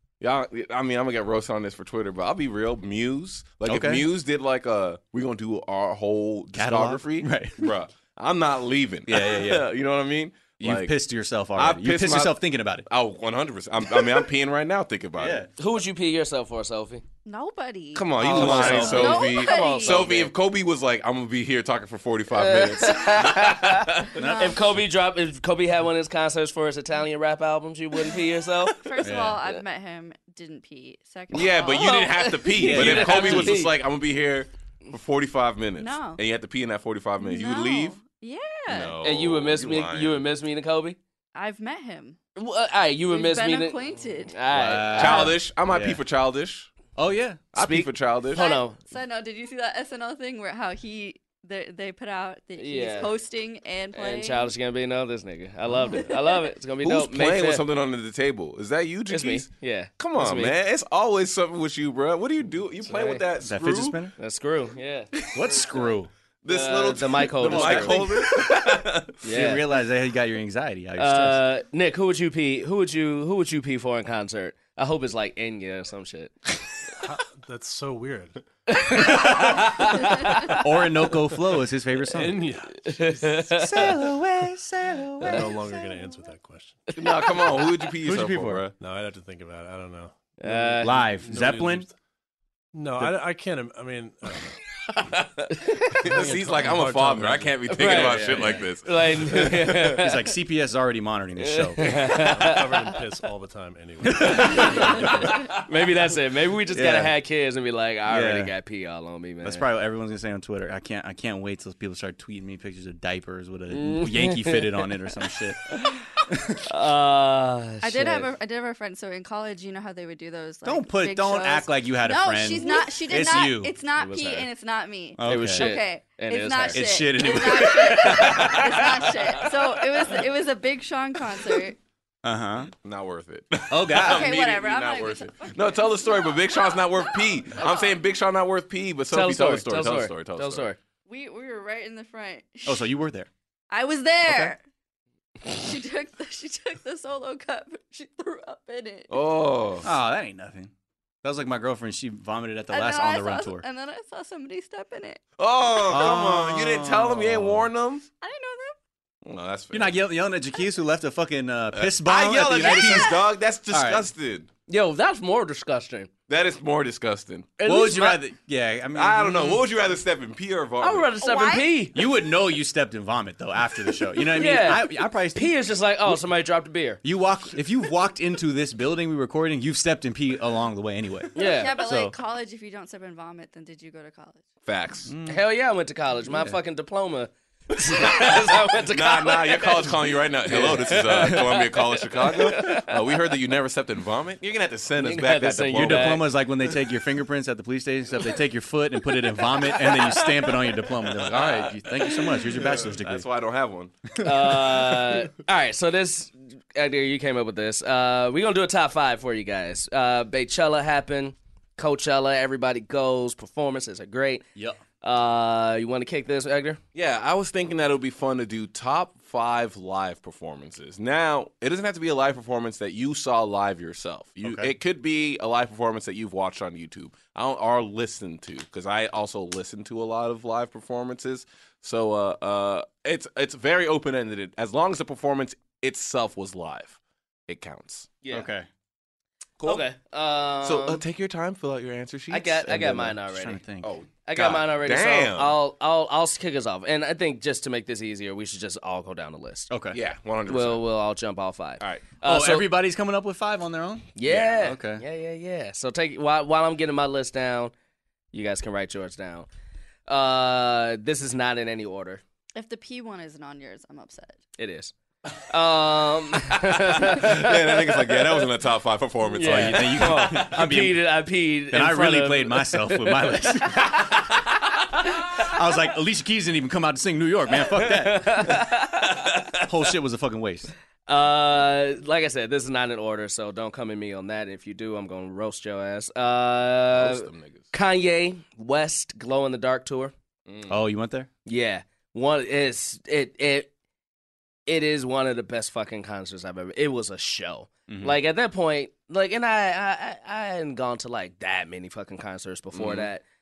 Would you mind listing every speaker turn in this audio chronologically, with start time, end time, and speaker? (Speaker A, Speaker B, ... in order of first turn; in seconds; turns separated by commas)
Speaker A: 0.2-10.9, Speaker B: 3.6-4.1, Speaker B: 6.5-7.7, Speaker B: 9.1-9.7, Speaker B: 10.6-12.9, Speaker A: 11.6-15.4, Speaker B: 15.2-15.5, Speaker C: 15.6-17.0, Speaker D: 17.3-20.0, Speaker A: 17.9-24.1, Speaker B: 18.2-19.1, Speaker C: 18.2-20.3, Speaker C: 22.3-28.9, Speaker B: 24.2-24.6, Speaker D: 24.2-24.6, Speaker D: 28.7-32.2, Speaker B: 29.0-29.4, Speaker A: 31.3-38.0, Speaker C: 31.7-33.7, Speaker B: 32.6-33.6, Speaker D: 35.8-36.2, Speaker D: 37.2-39.0, Speaker A: 38.7-40.2, Speaker C: 39.0-41.0, Speaker D: 41.4-42.2, Speaker C: 42.4-45.3, Speaker D: 43.1-44.4, Speaker B: 44.5-46.0, Speaker A: 45.0-46.7, Speaker B: 47.0-47.4, Speaker A: 47.5-48.5, Speaker C: 47.6-48.8, Speaker D: 48.3-54.5, Speaker C: 52.6-53.1, Speaker C: 54.0-57.6, Speaker D: 56.0-56.5, Speaker A: 56.8-59.5, Speaker C: 59.1-60.5, Speaker A: 60.0-64.0, Speaker C: 62.9-63.2, Speaker B: 63.4-64.2, Speaker C: 64.2-65.9, Speaker B: 65.3-66.1, Speaker A: 66.4-69.1, Speaker C: 66.5-68.5, Speaker B: 67.4-68.2, Speaker C: 69.2-69.7, Speaker B: 69.2-71.4, Speaker C: 71.0-76.5, Speaker E: 77.0-78.4, Speaker C: 78.7-80.6, Speaker B: 78.9-79.8, Speaker B: 80.6-82.4, Speaker E: 82.0-84.1, Speaker C: 82.9-84.0, Speaker B: 83.5-85.5, Speaker E: 85.2-87.0, Speaker C: 87.0-87.7, Speaker A: 87.0-88.8, Speaker B: 88.0-88.7, Speaker E: 88.8-91.9, Speaker C: 90.4-91.0, Speaker B: 90.8-91.9, Speaker E: 92.7-94.6, Speaker C: 95.5-96.1, Speaker E: 96.0-98.4, Speaker A: 96.0-99.9, Speaker C: 97.7-100.3, Speaker B: 98.0-98.7, Speaker B: 99.9-101.8, Speaker C: 101.4-103.0, Speaker E: 102.2-105.5, Speaker B: 104.0-105.1, Speaker C: 104.2-109.6, Speaker B: 106.7-107.1, Speaker B: 108.1-108.5, Speaker B: 109.4-116.7, Speaker C: 113.7-114.8, Speaker C: 116.7-118.3, Speaker D: 117.8-131.8, Speaker B: 120.6-123.8, Speaker C: 124.0-124.5, Speaker B: 125.2-125.7, Speaker C: 125.3-127.1, Speaker B: 126.7-128.6, Speaker A: 128.2-129.4, Speaker C: 128.2-129.4, Speaker B: 132.2-132.7, Speaker A: 132.8-140.7, Speaker B: 133.7-134.3, Speaker D: 134.0-138.0, Speaker C: 139.1-140.8, Speaker D: 141.1-142.9, Speaker B: 142.7-143.3, Speaker D: 143.7-144.6, Speaker B: 144.2-144.5, Speaker D: 145.4-149.1, Speaker A: 149.1-149.9, Speaker B: 149.8-150.7, Speaker B: 151.2-153.7, Speaker D: 152.7-155.2, Speaker A: 155.4-158.1, Speaker B: 155.9-157.7, Speaker D: 158.2-158.8, Speaker A: 159.2-160.0, Speaker B: 159.7-164.1, Speaker A: 161.7-164.5, Speaker C: 164.7-166.1, Speaker A: 166.3-167.6, Speaker C: 167.6-168.2, Speaker B: 167.7-169.6, Speaker A: 168.9-171.1, Speaker C: 170.8-171.9, Speaker D: 171.2-171.7, Speaker B: 171.9-175.5, Speaker C: 174.2-177.0, Speaker B: 177.0-182.1, Speaker C: 181.4-181.8, Speaker D: 181.4-184.5, Speaker A: 184.7-185.1, Speaker B: 185.1-185.4, Speaker C: 185.3-193.0, Speaker A: 188.0-196.2, Speaker C: 195.0-196.3, Speaker B: 195.7-203.3, Speaker C: 199.6-200.7, Speaker A: 201.2-201.7, Speaker A: 202.5-204.2, Speaker C: 204.2-214.4, Speaker C: 215.0-216.8, Speaker A: 216.9-238.1, Speaker B: 224.4-224.7, Speaker C: 238.2-238.5, Speaker B: 238.3-238.7, Speaker A: 239.6-239.8, Speaker C: 239.6-241.0, Speaker A: 240.6-243.2, Speaker C: 242.3-243.6, Speaker B: 243.3-243.9, Speaker A: 243.8-245.6, Speaker C: 244.2-249.7, Speaker B: 249.7-250.0, Speaker A: 249.9-250.8, Speaker C: 250.5-252.7, Speaker A: 251.8-252.1, Speaker B: 252.2-255.0, Speaker C: 254.2-257.7, Speaker A: 254.3-254.6, Speaker C: 258.3-259.5, Speaker C: 260.1-262.2, Speaker D: 262.6-264.4, Speaker C: 264.6-268.4, Speaker A: 267.0-270.5, Speaker C: 269.3-274.2, Speaker B: 269.4-271.0, Speaker B: 271.7-274.1, Speaker B: 275.2-278.6, Speaker C: 277.7-279.2, Speaker B: 279.6-280.7, Speaker C: 281.1-290.1, Speaker A: 286.9-287.7, Speaker A: 290.5-290.8, Speaker B: 290.7-291.3, Speaker C: 291.5-293.7, Speaker C: 294.7-303.2, Speaker B: 297.9-298.2, Speaker A: 302.7-303.1